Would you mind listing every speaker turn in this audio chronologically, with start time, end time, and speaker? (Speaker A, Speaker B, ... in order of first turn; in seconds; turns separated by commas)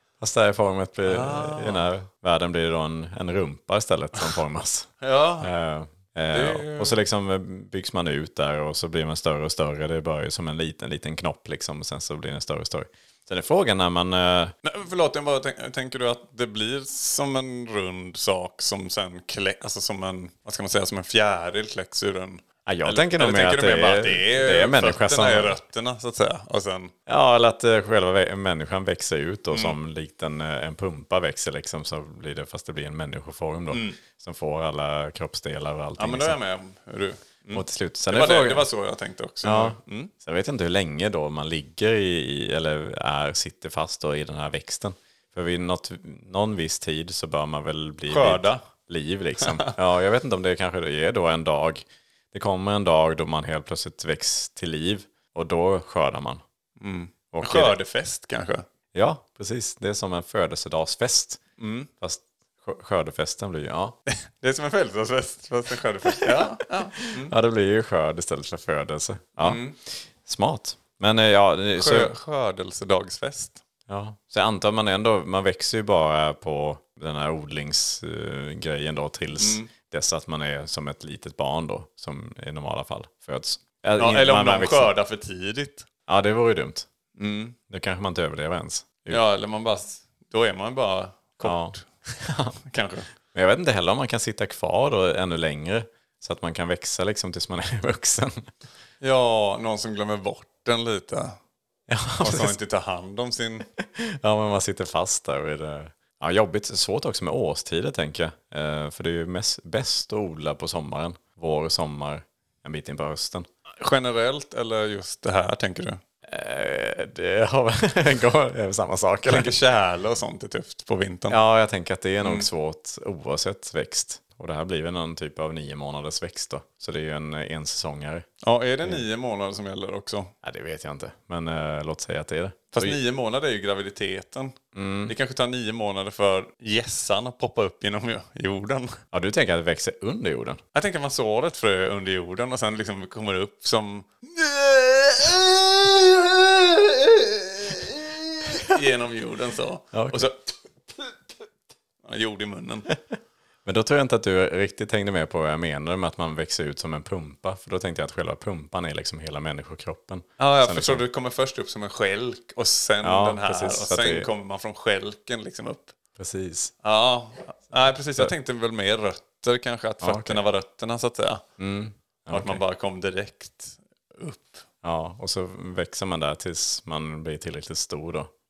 Speaker A: 0.2-4.9, Speaker B: 1.0-1.9, Speaker B: 5.0-5.5, Speaker A: 5.4-14.5, Speaker B: 6.3-7.0, Speaker B: 14.6-26.9, Speaker A: 22.6-25.6, Speaker A: 27.1-36.4, Speaker B: 29.5-29.8, Speaker B: 33.7-34.0, Speaker B: 36.0-40.1, Speaker A: 37.5-38.7, Speaker A: 39.4-56.4, Speaker B: 48.1-48.6, Speaker B: 49.4-49.7, Speaker B: 56.8-58.6, Speaker A: 57.3-57.8, Speaker A: 58.9-61.4, Speaker B: 61.6-61.9, Speaker A: 62.0-64.0, Speaker B: 64.1-67.3, Speaker A: 67.0-72.1, Speaker B: 69.4-69.8, Speaker B: 71.8-73.6, Speaker A: 73.9-84.9, Speaker B: 79.4-79.7, Speaker B: 84.0-85.9, Speaker A: 86.1-86.9, Speaker B: 87.2-87.5, Speaker A: 87.7-89.2, Speaker B: 89.1-91.8, Speaker A: 91.4-92.6, Speaker B: 92.7-93.1, Speaker A: 93.3-98.5, Speaker B: 99.0-101.4, Speaker A: 101.9-102.6, Speaker B: 102.2-103.7, Speaker A: 103.8-113.5, Speaker B: 113.8-116.0, Speaker A: 116.2-119.5, Speaker B: 119.2-121.4, Speaker A: 121.3-128.3, Speaker B: 122.2-122.5, Speaker B: 128.4-130.3, Speaker A: 130.4-133.0, Speaker B: 132.7-134.6, Speaker A: 134.7-135.1, Speaker B: 135.1-138.9, Speaker A: 139.1-140.6, Speaker B: 140.7-151.1, Speaker A: 149.9-150.3, Speaker B: 152.0-152.9, Speaker A: 153.6-161.0, Speaker B: 160.4-165.9, Speaker A: 163.0-164.3, Speaker A: 166.2-166.7, Speaker B: 166.8-171.4, Speaker A: 170.0-170.4, Speaker A: 171.6-172.6, Speaker B: 172.3-174.6, Speaker A: 174.8-178.3